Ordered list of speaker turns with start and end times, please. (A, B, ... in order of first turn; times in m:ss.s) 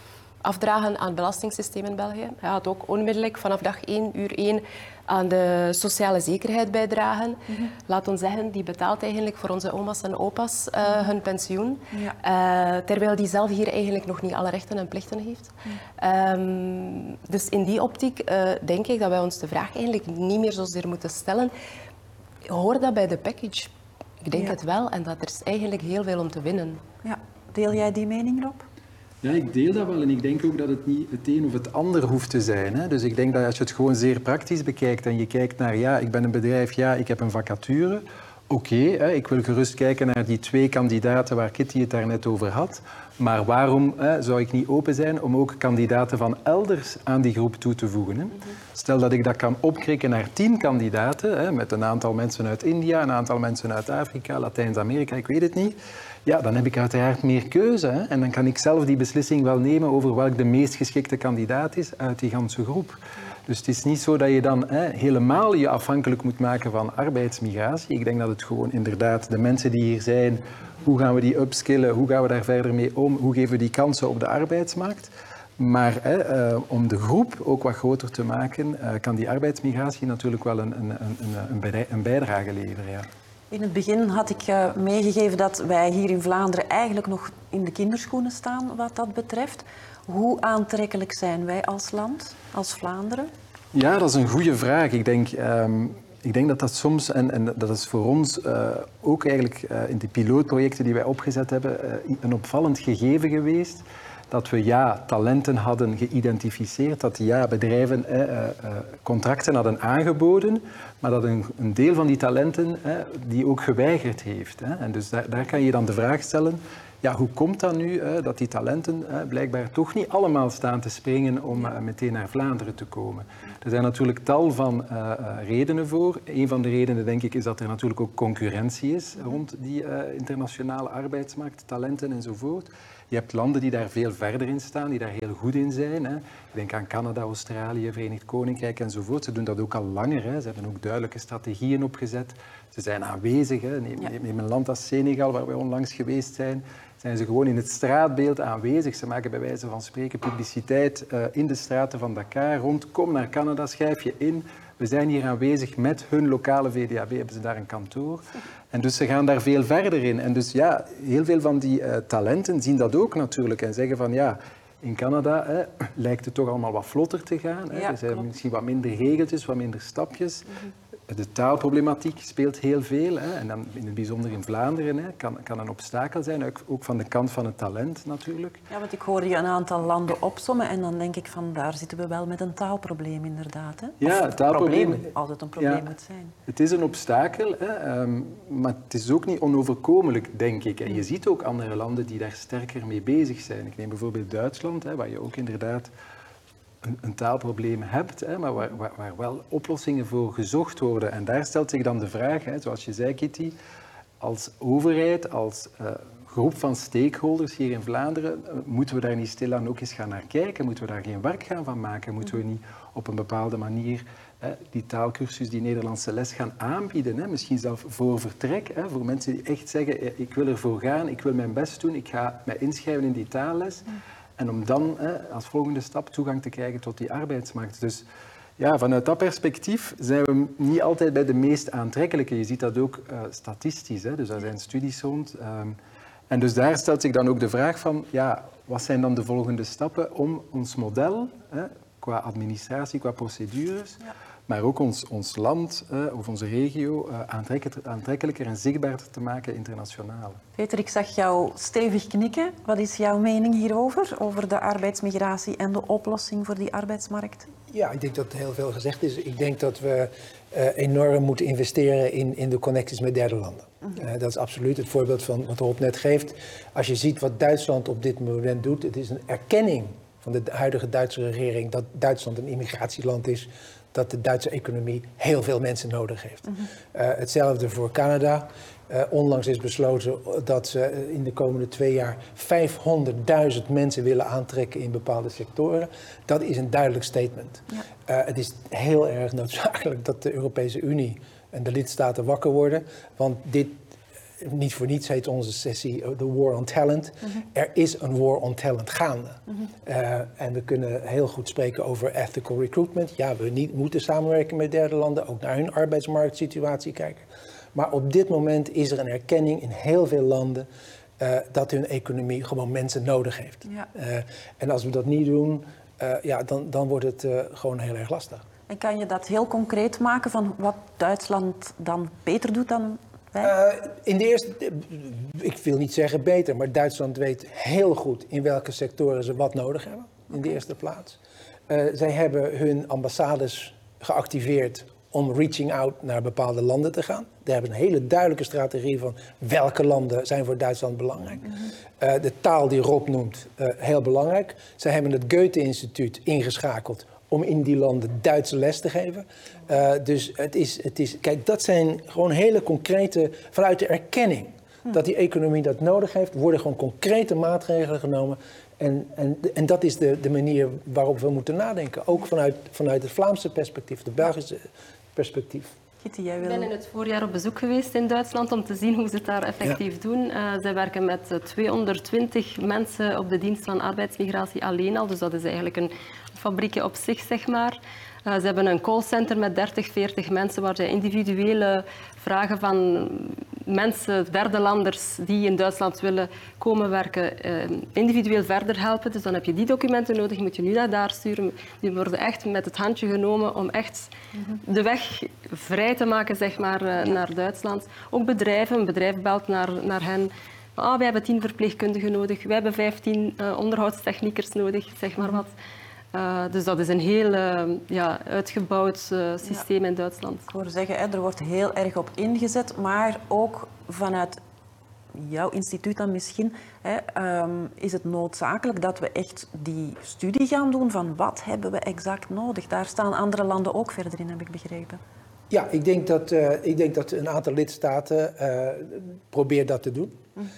0:00.4-0:21.5 A
0:22.5-0:23.7 A
0:24.2-0:26.8 A
0:27.0-0:28.6 B
0:29.2-1:23.1 C
1:23.5-1:33.3 B
1:33.7-2:50.5 C
2:47.7-2:48.2 B
2:51.1-2:58.6 C
2:58.7-3:06.3 B
3:04.0-3:05.9 C
3:06.5-3:15.9 C
3:16.8-3:23.6 C
3:24.2-3:43.9 C
3:44.4-3:48.0 C
3:48.6-3:55.8 C
3:56.3-4:10.4 C
4:10.6-4:17.5 B
4:17.7-4:53.9 D
4:54.4-5:10.7 D
5:11.2-5:18.4 D
5:18.7-5:23.5 B
5:23.4-6:05.7 D
6:06.0-6:06.7 B
6:06.4-6:34.1 E
6:34.3-6:34.6 B
6:34.6-6:45.5 E
6:46.1-6:50.5 E
6:50.5-6:54.4 B
6:55.1-7:05.0 B
7:05.5-7:10.2 D